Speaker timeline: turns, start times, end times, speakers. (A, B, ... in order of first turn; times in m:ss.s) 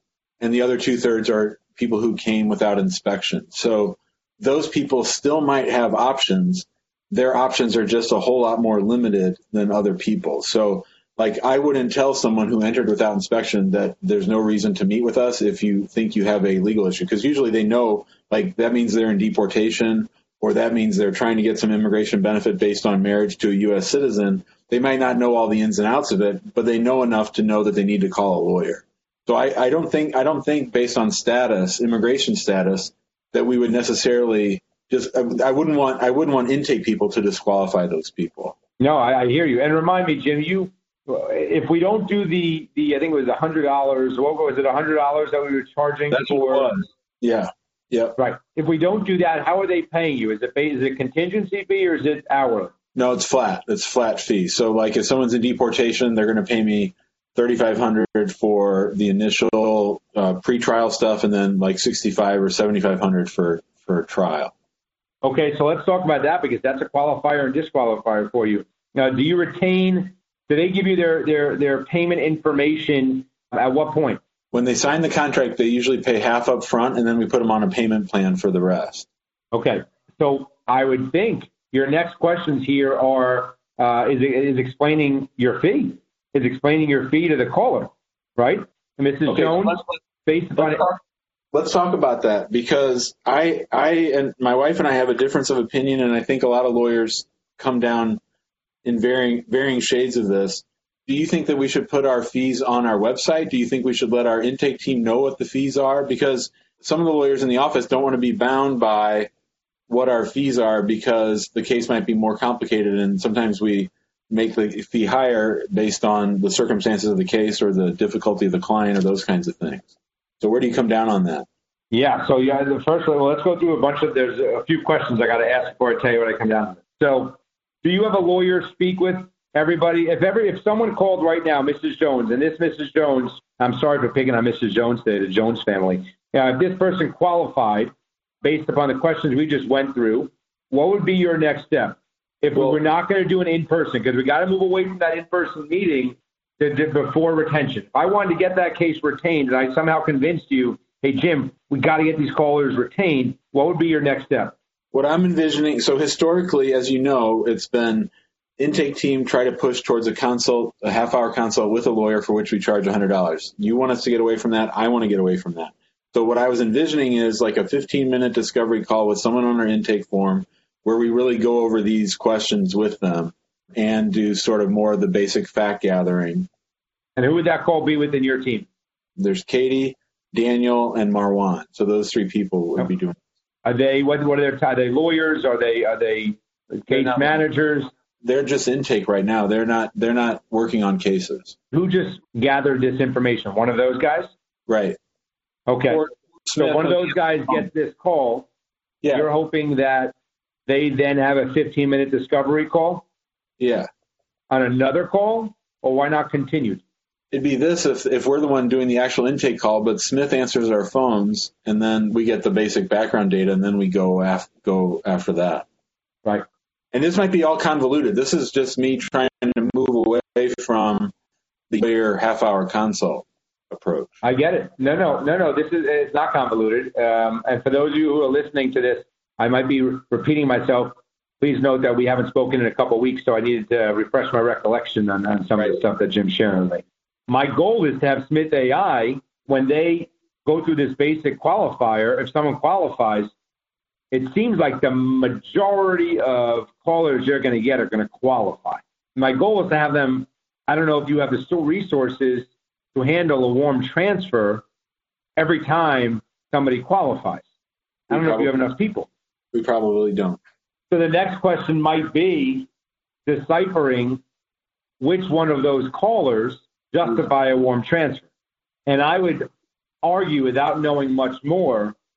0:00.4-0:38.6 A
0:38.8-0:46.9 B
0:46.1-0:48.2 A
0:48.2-0:52.7 B
0:53.0-1:04.5 A
1:05.2-1:14.2 B
1:14.5-1:19.1 A
1:19.5-1:30.9 B
1:29.3-1:29.9 A
1:30.6-1:31.0 A
1:31.5-1:38.2 A
1:38.8-1:49.3 A
1:49.9-1:59.9 A
2:00.4-2:01.5 A
2:01.9-2:17.9 B
2:18.4-2:34.6 B
2:34.9-2:56.5 A
2:57.2-2:58.7 B
2:59.2-3:03.2 A
3:03.6-3:07.9 B
3:06.9-3:07.4 A
3:08.2-3:11.6 A
3:11.7-3:14.3 B
3:14.7-3:15.0 A
3:15.7-3:16.0 B
3:15.9-3:17.6 A
3:16.6-3:18.5 B
3:19.0-3:19.3 A
3:19.1-3:20.1 B
3:20.7-3:23.0 B
3:23.6-3:23.9 A
3:24.5-3:26.8 B
3:27.3-3:35.7 A
3:36.9-3:41.1 A
3:41.7-3:44.2 A
3:44.2-4:03.3 B
4:04.1-4:14.6 B
4:15.4-4:17.4 B
4:18.1-4:18.7 A
4:18.1-4:19.1 B
4:19.5-4:20.4 A
4:20.9-4:22.7 B
4:23.3-4:24.2 B
4:25.0-4:28.3 B
4:28.9-4:29.5 B
4:30.0-4:32.0 B